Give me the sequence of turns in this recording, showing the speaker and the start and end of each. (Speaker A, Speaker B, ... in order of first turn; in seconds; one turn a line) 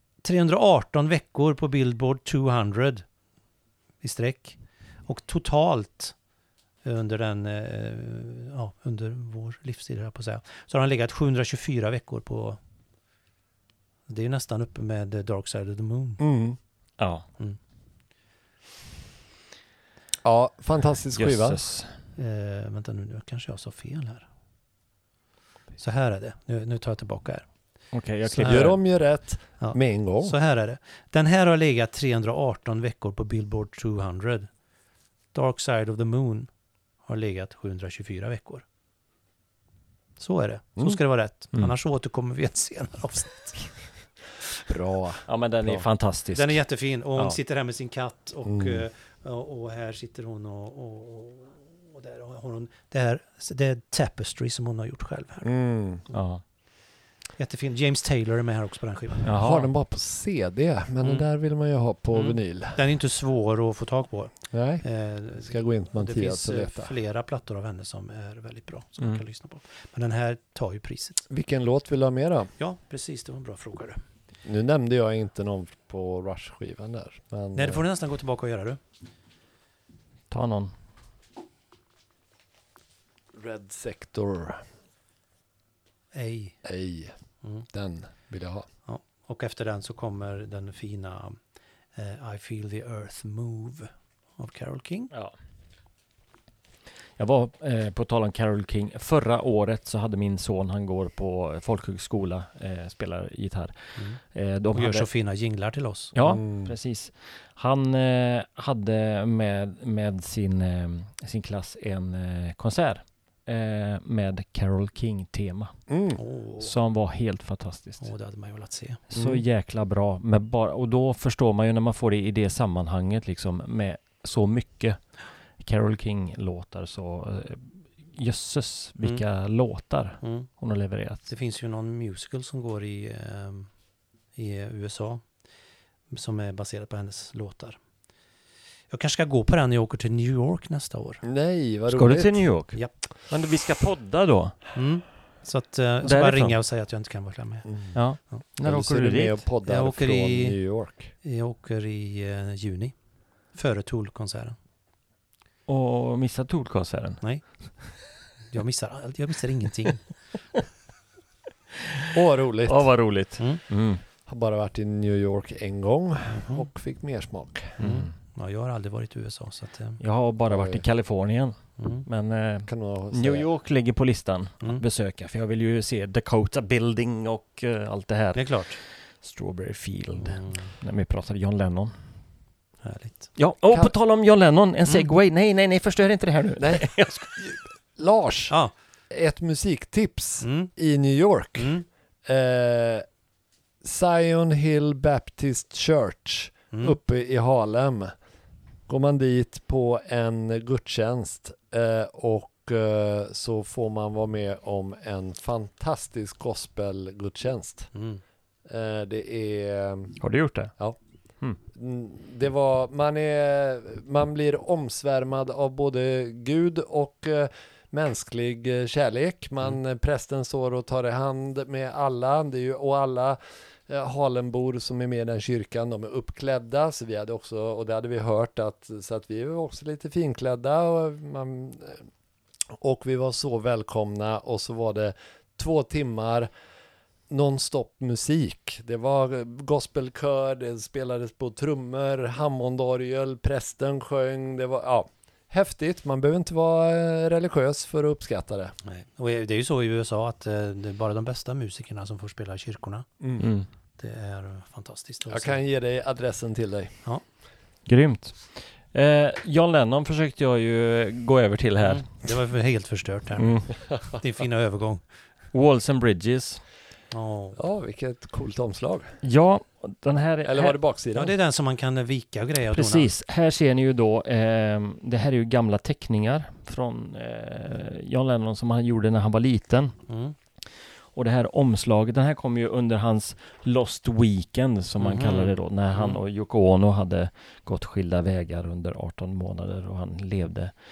Speaker A: 0.2-3.0
Speaker A: 4.0-6.2
Speaker A: 6.8-12.6
Speaker A: 14.1-16.2
Speaker B: 16.2-16.6
Speaker C: 17.0-17.2
Speaker B: 20.2-21.6
Speaker C: 21.1-21.9
Speaker A: 22.2-24.3
Speaker A: 25.8-27.5
Speaker C: 27.9-28.8
Speaker A: 28.3-28.7
Speaker B: 28.4-30.4
Speaker A: 29.6-34.5
Speaker A: 35.3-36.5
Speaker A: 37.0-38.6
Speaker A: 40.2-43.7
Speaker B: 44.7-45.9
Speaker C: 45.3-46.6
Speaker A: 46.3-55.5
Speaker B: 48.5-48.9
Speaker B: 55.4-56.0
Speaker C: 56.1-56.4
Speaker A: 57.4-59.3
Speaker C: 59.2-59.7
Speaker B: 59.4-62.8
Speaker A: 62.1-71.2
Speaker B: 64.5-64.8
Speaker B: 65.4-66.9
Speaker B: 71.3-72.5
Speaker A: 72.6-74.0
Speaker B: 74.5-77.8
Speaker A: 77.5-78.8
Speaker C: 80.3-80.7
Speaker B: 83.3-84.6
Speaker A: 86.1-86.6
Speaker B: 86.6-87.1
Speaker B: 87.7-88.7
Speaker A: 88.9-91.4
Speaker A: 92.0-95.1
Speaker C: 97.2-105.1
Speaker A: 104.7-106.1
Speaker C: 106.2-115.8
Speaker B: 106.2-106.7
Speaker B: 115.9-116.2
Speaker A: 116.2-116.7
Speaker C: 116.6-118.1
Speaker A: 118.0-119.0
Speaker C: 119.1-125.0
Speaker B: 119.2-119.4
Speaker C: 125.6-131.3
Speaker A: 130.2-130.5
Speaker A: 131.3-133.7
Speaker A: 134.4-135.2
Speaker A: 136.1-137.8
Speaker A: 138.9-141.2
Speaker B: 141.2-142.4
Speaker C: 141.9-144.6
Speaker A: 144.8-147.7
Speaker C: 146.0-146.6
Speaker B: 147.7-148.0
Speaker C: 147.9-149.4
Speaker B: 148.6-151.1
Speaker A: 149.7-150.6
Speaker A: 151.2-152.9
Speaker A: 153.5-154.6
Speaker C: 155.7-157.2
Speaker A: 158.5-160.1
Speaker B: 162.1-162.9
Speaker C: 162.7-164.0
Speaker B: 164.3-167.8
Speaker A: 166.3-166.7
Speaker C: 167.8-168.1
Speaker A: 167.8-170.0
Speaker C: 170.0-181.9
Speaker B: 170.5-170.8
Speaker A: 171.8-172.1
Speaker B: 172.7-173.5
Speaker A: 178.3-178.8
Speaker A: 180.2-180.7
Speaker A: 182.8-183.3
Speaker C: 183.4-187.3
Speaker B: 186.6-188.5
Speaker B: 189.1-191.7
Speaker A: 190.4-190.7
Speaker A: 191.6-191.9
Speaker B: 192.2-193.0
Speaker B: 193.8-198.1
Speaker B: 198.9-207.9
Speaker A: 207.9-208.2
Speaker B: 208.7-210.2
Speaker C: 210.2-210.7
Speaker B: 211.7-232.0
Speaker B: 232.8-236.5
Speaker B: 237.3-248.7
Speaker A: 248.8-253.1
Speaker C: 253.4-253.7
Speaker A: 254.0-255.6
Speaker B: 255.3-256.9
Speaker C: 257.9-262.1
Speaker A: 261.8-263.6
Speaker A: 264.1-265.0
Speaker C: 265.5-266.6
Speaker A: 267.1-267.6
Speaker B: 267.6-269.1
Speaker C: 269.2-270.8
Speaker B: 270.4-271.3
Speaker A: 271.1-273.1
Speaker C: 272.7-280.0
Speaker A: 280.1-280.4
Speaker C: 281.1-290.7
Speaker A: 285.0-286.2